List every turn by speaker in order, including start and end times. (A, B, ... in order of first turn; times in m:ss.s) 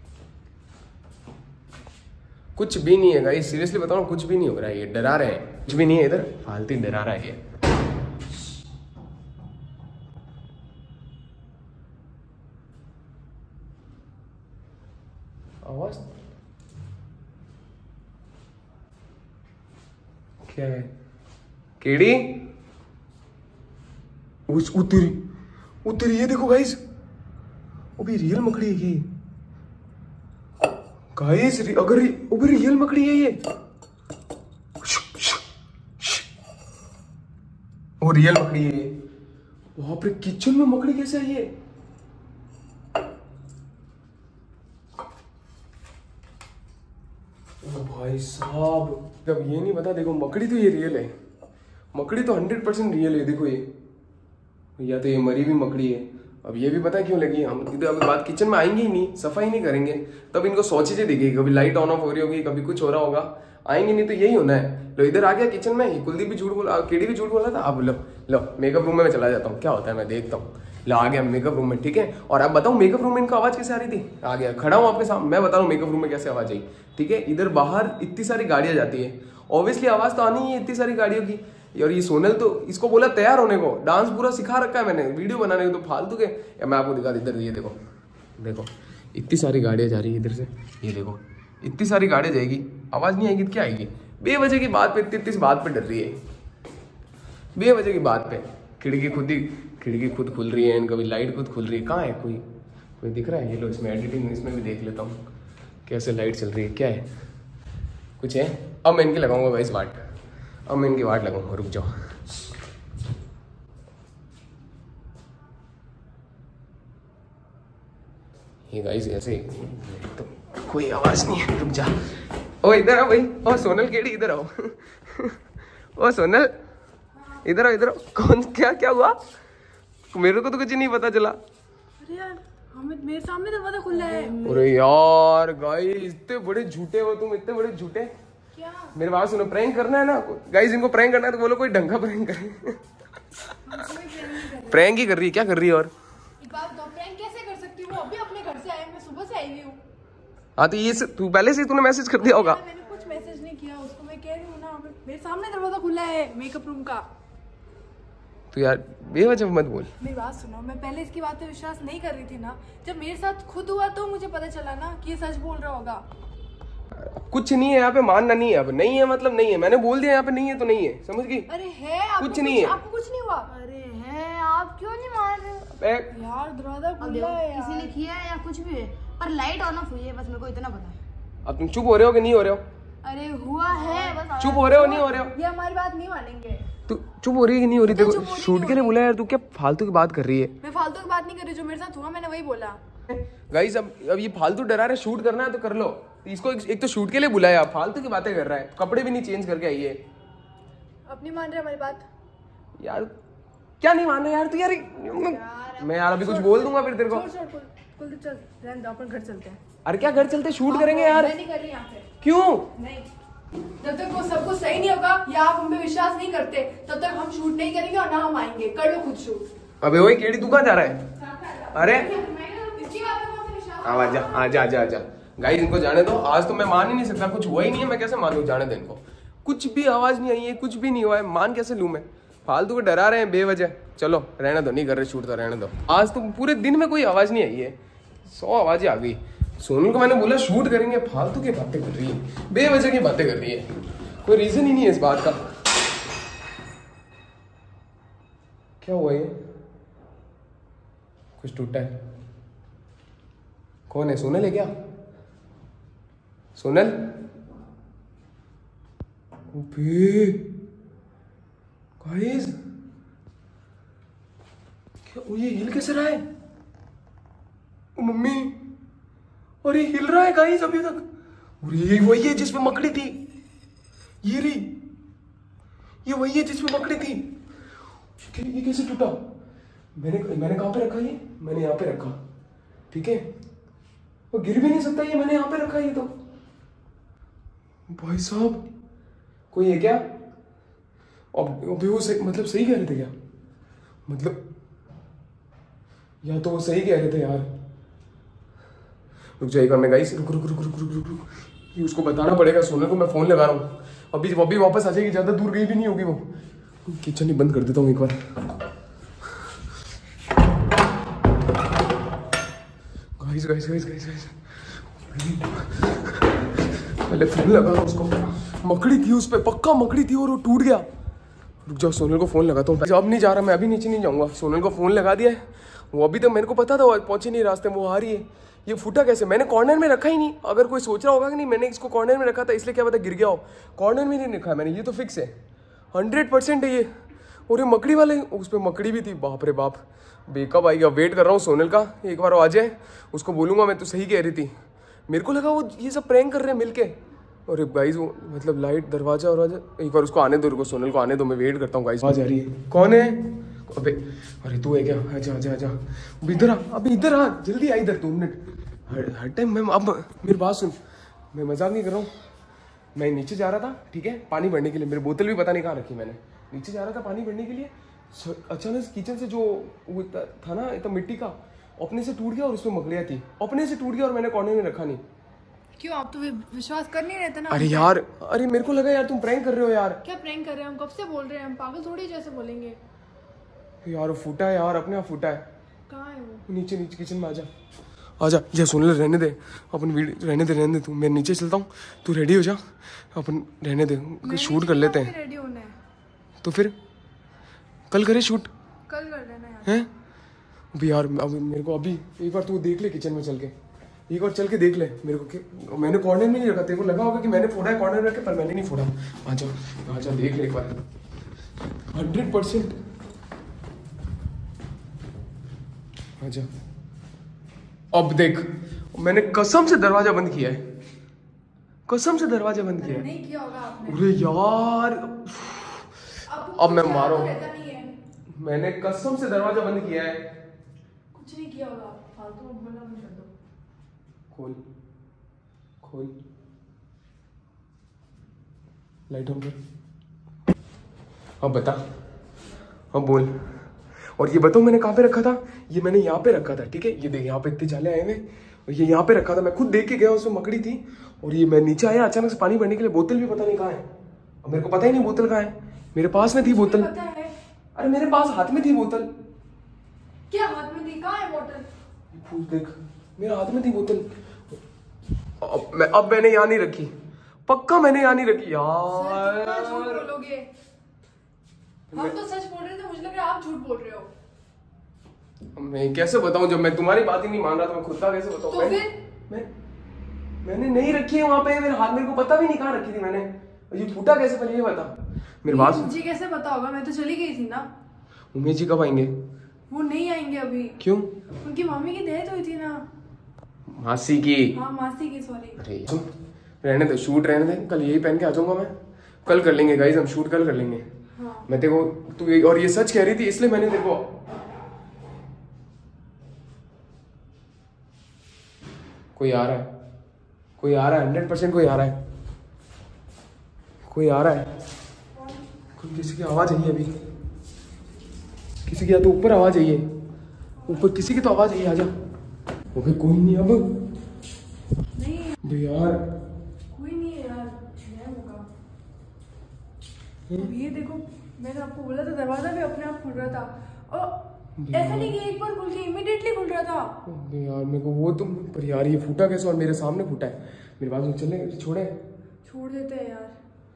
0:02.6-0:07.4 A
0:15.6-0:16.0 A
0:20.4-0:20.9 A
0:21.8-0:22.5 A
0:24.5-0:25.2 A
0:25.8-0:26.8 A
0:28.0-0:29.0 A
0:31.2-0:33.4 A
0:34.8-0:35.4 A
0:36.0-0:36.2 A
0:38.0-0:38.9 A
0:39.8-0:41.5 A
0:47.6-0:51.1 A
0:51.9-0:53.6 A
0:54.8-1:27.8 A
1:28.4-1:36.2 A
1:37.6-1:42.4 A
1:43.0-1:45.1 A
1:45.8-1:47.1 A
1:48.2-1:50.0 A
1:50.7-1:51.9 A
1:58.7-2:01.9 A
2:02.6-2:05.4 A
2:06.0-2:06.5 A
2:07.2-2:07.4 B
2:07.4-2:09.2 A
2:10.1-2:11.4 A
2:12.0-2:14.4 B
2:13.9-2:14.7 C
2:14.4-2:18.1 A
2:18.5-2:18.9 B
2:18.9-2:22.8 A
2:23.6-2:24.9 B
2:24.6-2:25.9 A
2:26.4-2:29.8 B
2:30.6-2:32.6 A
2:32.1-2:37.1 B
2:38.5-2:39.9 A
2:40.0-2:46.0 B
2:46.9-2:51.5 A
2:51.5-2:53.5 B
2:52.2-2:52.8 A
2:53.5-2:55.7 C
2:55.7-2:56.1 A
2:56.1-2:57.9 B
2:57.0-3:01.0 C
3:01.4-3:02.6 A
3:03.0-3:05.1 C
3:03.7-3:04.2 B
3:04.4-3:05.3 A
3:04.8-3:06.6 B
3:06.9-3:10.5 A
3:07.9-3:09.0 B
3:10.6-3:12.8 B
3:13.1-3:20.0 A
3:21.1-3:22.0 B
3:22.8-3:23.1 A
3:23.8-3:27.3 A
3:25.1-3:26.0 C
3:26.2-3:29.6 B
3:29.8-3:31.3 A
3:30.6-3:32.1 B
3:32.2-3:32.7 A
3:32.8-3:33.1 B
3:33.8-3:39.4 B
3:39.8-3:41.0 A
3:41.3-3:44.7 B
3:41.7-3:42.1 A
3:43.8-4:03.6 A
4:04.2-4:05.4 A
4:08.8-4:09.4 A
4:11.4-4:11.9 A
4:13.9-4:14.7 A
4:16.6-4:17.0 A
4:19.5-4:20.5 A
4:22.0-4:22.5 A
4:25.0-4:26.2 A
4:28.0-4:28.5 A
4:29.6-4:31.0 A
4:31.6-4:33.2 A
4:34.2-4:34.7 A
4:36.0-4:37.2 A
4:38.3-4:39.2 A
4:40.0-4:42.2 A
4:42.9-4:43.2 A
4:44.3-4:46.1 A
4:47.9-4:48.6 A
4:49.5-4:50.0 A
4:51.3-4:53.1 A
4:54.1-4:54.4 A
4:56.2-4:57.5 A
4:59.4-5:06.2 A
5:06.8-5:08.2 A
5:13.2-5:20.8 A
5:21.6-5:35.3 A
5:35.9-5:36.9 A
5:37.5-5:44.5 A
5:45.1-5:46.9 A
5:47.5-6:00.8 A
6:01.3-6:02.1 A
6:02.9-6:15.0 A
6:15.8-6:17.9 B
6:17.5-6:20.0 A
6:20.0-6:22.8 B
6:23.8-6:25.4 A
6:25.9-6:26.5 B
6:26.5-6:27.5 A
6:28.2-6:32.6 A
6:33.1-6:35.1 A
6:34.2-6:35.8 B
6:36.4-6:36.7 A
6:37.9-6:38.5 A
6:38.9-6:39.8 B
6:40.7-6:43.5 A
6:44.1-6:50.8 A
6:51.9-6:52.7 A
6:56.2-6:56.5 A
6:57.9-7:00.6 A
7:01.9-7:03.1 A
7:02.8-7:04.0 B
7:03.8-7:07.3 A
7:06.3-7:07.9 B
7:08.3-7:10.3 A
7:11.1-7:13.3 B
7:14.3-7:14.6 A
7:15.8-7:16.1 A
7:19.1-7:19.6 A
7:21.4-7:21.8 A
7:22.9-7:23.3 A
7:24.2-7:33.8 A
7:34.4-7:36.9 A
7:36.2-7:37.3 B
7:37.8-7:39.1 A
7:40.3-7:41.6 B
7:42.1-7:44.6 A
7:45.4-7:46.9 A
7:47.5-7:50.0 A
7:48.9-7:50.5 B
7:51.9-7:52.2 A
7:51.9-7:54.1 B
7:55.5-7:59.5 A
7:58.5-7:58.9 B
8:00.4-8:05.9 A
8:05.4-8:07.7 B
8:08.3-8:09.1 A
8:09.7-8:10.8 B
8:10.8-8:11.1 A
8:11.4-8:12.8 B
8:13.7-8:14.6 A
8:14.5-8:15.6 B
8:15.6-8:16.0 A
8:16.6-8:20.8 A
8:21.2-8:21.5 B
8:21.5-8:24.1 A
8:29.2-8:29.7 A
8:30.6-8:32.0 A
8:33.9-8:34.5 A
8:35.8-8:36.9 A
8:38.6-8:39.8 A
8:40.6-8:41.2 B
8:40.7-8:41.9 A
8:42.7-8:43.7 A
8:44.9-8:45.4 B
8:45.4-8:46.0 A
8:46.7-8:48.5 B
8:50.3-8:57.0 B
8:54.6-8:55.2 A
8:57.0-9:02.0 A
9:02.4-9:03.3 B